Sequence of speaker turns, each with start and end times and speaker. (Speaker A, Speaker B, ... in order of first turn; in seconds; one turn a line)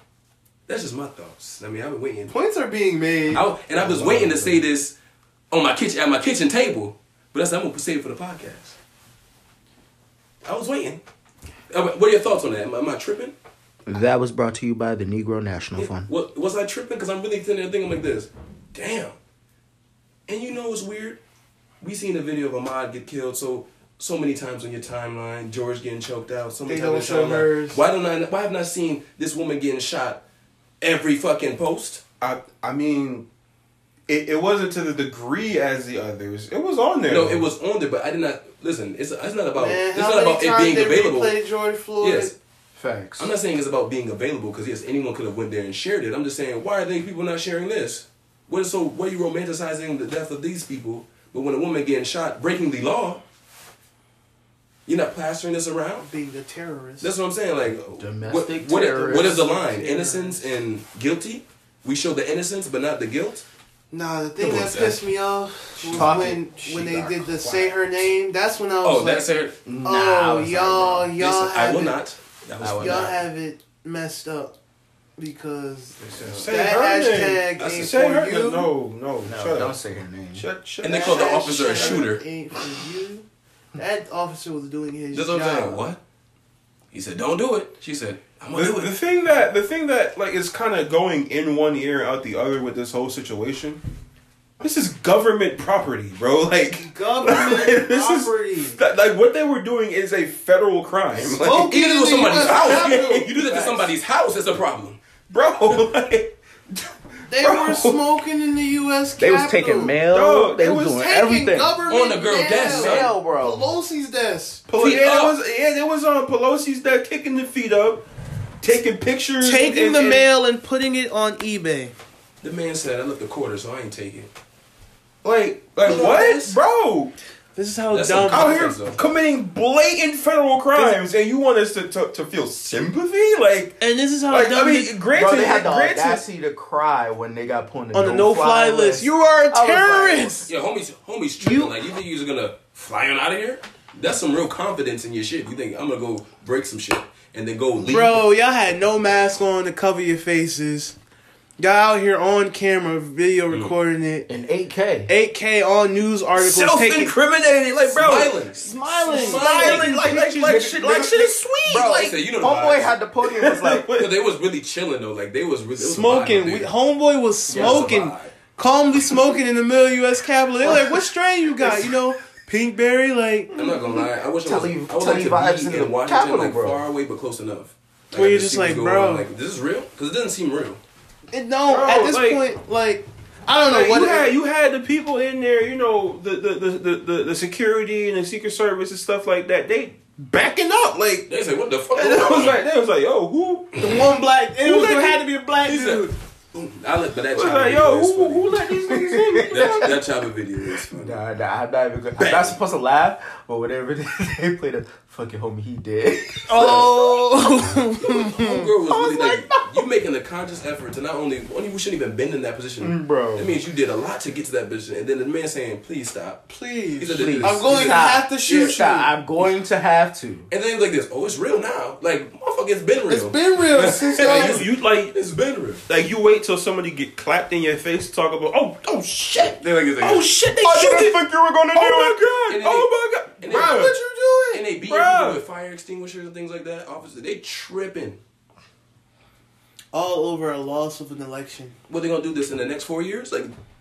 Speaker A: 0.7-2.4
Speaker B: 2.3-3.5
Speaker A: 3.3-5.0
Speaker C: 3.8-4.5
Speaker D: 3.9-4.6
Speaker A: 5.5-8.8
Speaker A: 10.4-11.0
Speaker A: 11.7-13.3
Speaker C: 13.9-16.1
Speaker A: 15.8-19.2
Speaker A: 20.3-21.2
Speaker A: 21.8-30.2
Speaker B: 26.7-27.8
Speaker A: 30.8-32.0
Speaker D: 32.2-33.3
Speaker D: 34.1-37.5
Speaker A: 37.1-41.4
Speaker B: 39.6-42.3
Speaker A: 42.0-42.4
Speaker C: 42.8-43.3
Speaker A: 43.2-53.2
Speaker A: 54.9-56.1
Speaker B: 56.0-57.1
Speaker A: 57.0-63.5
Speaker C: 57.8-59.5
Speaker B: 59.0-60.5
Speaker B: 63.9-69.3
Speaker A: 64.4-65.0
Speaker D: 65.9-66.3
Speaker C: 65.9-67.5
Speaker D: 67.4-67.8
Speaker A: 68.8-69.6
Speaker C: 69.7-71.1
Speaker B: 69.8-72.0
Speaker A: 71.2-73.2
Speaker C: 72.6-73.1
Speaker B: 72.8-74.5
Speaker B: 75.2-78.7
Speaker D: 76.0-79.8
Speaker A: 76.1-76.5
Speaker C: 79.2-80.5
Speaker D: 80.3-82.0
Speaker A: 80.8-82.2
Speaker B: 80.9-83.2
Speaker B: 83.8-85.9
Speaker A: 85.1-86.0
Speaker A: 86.9-88.9
Speaker D: 88.5-93.8
Speaker D: 94.6-103.9
Speaker B: 96.7-98.8
Speaker B: 101.2-103.4
Speaker A: 101.5-105.0
Speaker D: 105.3-108.0
Speaker B: 107.3-110.0
Speaker C: 109.2-111.8
Speaker D: 110.1-111.1
Speaker B: 110.9-114.7
Speaker A: 111.9-113.1
Speaker C: 112.6-113.7
Speaker D: 114.7-118.0
Speaker A: 114.8-115.4
Speaker D: 118.6-120.3
Speaker B: 119.4-121.9
Speaker A: 122.4-124.3
Speaker D: 125.2-127.1
Speaker A: 125.8-126.6
Speaker B: 125.9-126.4
Speaker B: 127.6-128.7
Speaker A: 127.9-129.0
Speaker D: 128.3-136.2
Speaker B: 133.8-134.9
Speaker C: 135.1-140.5
Speaker B: 137.9-140.5
Speaker A: 140.5-148.2
Speaker B: 147.8-151.0
Speaker B: 151.6-154.3
Speaker C: 154.3-155.1
Speaker B: 155.1-157.2
Speaker D: 156.4-158.4
Speaker A: 157.9-160.2
Speaker B: 158.6-160.3
Speaker C: 159.1-163.9
Speaker D: 159.2-162.2
Speaker A: 161.7-163.0
Speaker D: 163.2-164.1
Speaker A: 163.9-166.7
Speaker B: 165.8-173.5
Speaker A: 167.5-168.3
Speaker C: 167.5-167.9
Speaker A: 173.6-180.8
Speaker C: 174.4-176.8
Speaker B: 178.1-179.3
Speaker B: 181.3-184.3
Speaker D: 181.7-182.4
Speaker D: 183.7-191.3
Speaker A: 191.3-192.6
Speaker D: 191.9-194.0
Speaker B: 193.8-196.2
Speaker D: 194.6-195.2
Speaker A: 195.6-198.7
Speaker D: 197.3-200.0
Speaker C: 198.8-200.0
Speaker A: 199.5-201.2
Speaker C: 200.8-207.5
Speaker A: 202.2-202.6
Speaker B: 206.5-208.7
Speaker A: 208.0-218.8
Speaker C: 208.9-209.8
Speaker C: 212.8-213.6
Speaker B: 216.5-219.1
Speaker C: 217.1-220.5
Speaker A: 220.5-225.8
Speaker B: 223.1-224.6
Speaker D: 224.2-225.1
Speaker D: 225.9-234.0
Speaker A: 229.4-231.0
Speaker C: 230.7-231.1
Speaker A: 231.8-233.9
Speaker B: 233.5-234.6
Speaker A: 234.5-238.2
Speaker D: 234.8-235.4
Speaker B: 239.9-241.8
Speaker A: 241.9-243.5